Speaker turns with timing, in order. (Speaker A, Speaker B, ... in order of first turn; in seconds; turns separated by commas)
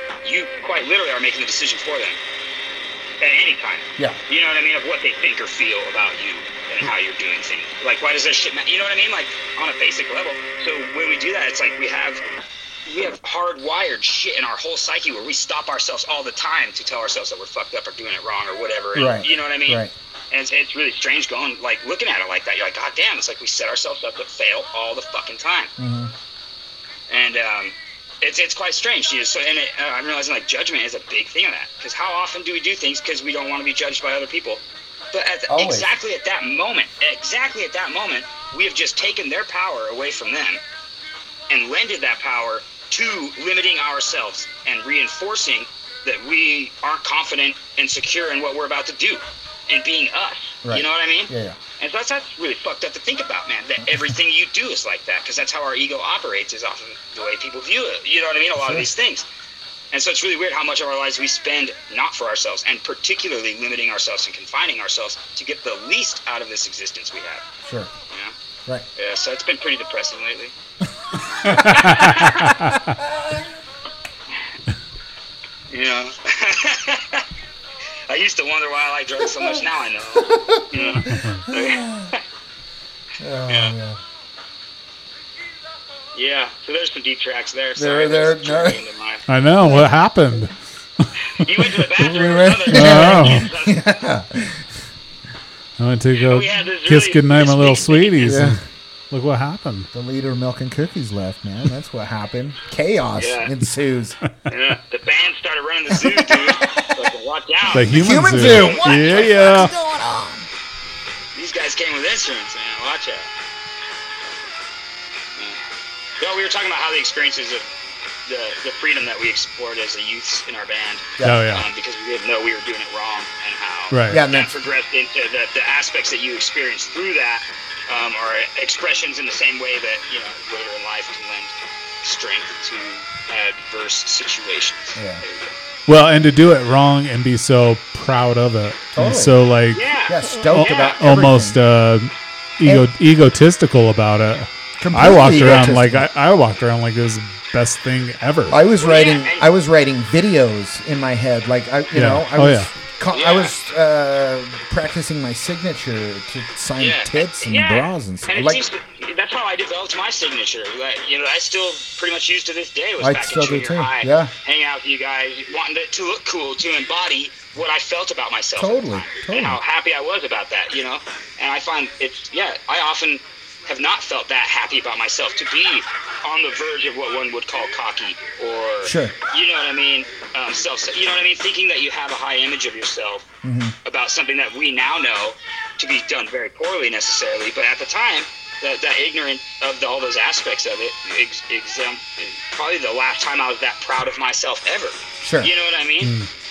Speaker A: 0.2-2.2, Speaker A: 3.2-12.2, Speaker A: 12.8-25.7, Speaker B: 18.9-19.9, Speaker B: 25.8-26.1, Speaker A: 27.1-40.6, Speaker B: 35.5-35.9, Speaker A: 41.5-59.2, Speaker B: 50.6-51.6, Speaker B: 58.6-58.9, Speaker A: 59.9-67.4, Speaker B: 67.6-67.9, Speaker A: 69.0-70.5, Speaker A: 71.4-72.6, Speaker C: 71.4-72.8, Speaker A: 75.7-77.2, Speaker A: 78.1-82.2, Speaker B: 80.1-82.1, Speaker C: 81.1-81.4, Speaker B: 83.2-84.0, Speaker A: 83.5-83.7, Speaker A: 86.1-89.2, Speaker B: 87.8-88.8, Speaker C: 89.3-91.0, Speaker B: 89.6-89.9, Speaker A: 91.3-93.8, Speaker B: 91.9-94.7, Speaker C: 92.7-93.5, Speaker C: 95.8-99.9, Speaker A: 96.1-98.4, Speaker B: 98.2-98.6, Speaker B: 99.9-104.2, Speaker A: 103.2-103.5, Speaker A: 104.5-109.7, Speaker C: 107.7-109.7, Speaker B: 107.8-110.5, Speaker A: 111.3-113.3, Speaker A: 116.2-117.7, Speaker A: 118.3-135.6, Speaker B: 121.2-121.4, Speaker C: 121.2-121.7, Speaker C: 123.9-124.2, Speaker B: 124.1-124.5, Speaker B: 134.9-135.2, Speaker C: 135.9-139.8, Speaker B: 138.9-139.4, Speaker A: 139.7-141.0, Speaker B: 140.1-141.6, Speaker C: 140.4-148.6, Speaker B: 144.8-146.1, Speaker B: 148.5-158.6, Speaker A: 148.8-149.5, Speaker C: 151.9-152.7, Speaker A: 153.1-153.5, Speaker A: 156.8-183.2, Speaker B: 163.0-164.3, Speaker B: 168.6-169.6, Speaker B: 178.8-179.1, Speaker B: 183.4-183.7, Speaker A: 183.8-196.1, Speaker B: 195.2-195.5, Speaker C: 196.0-196.3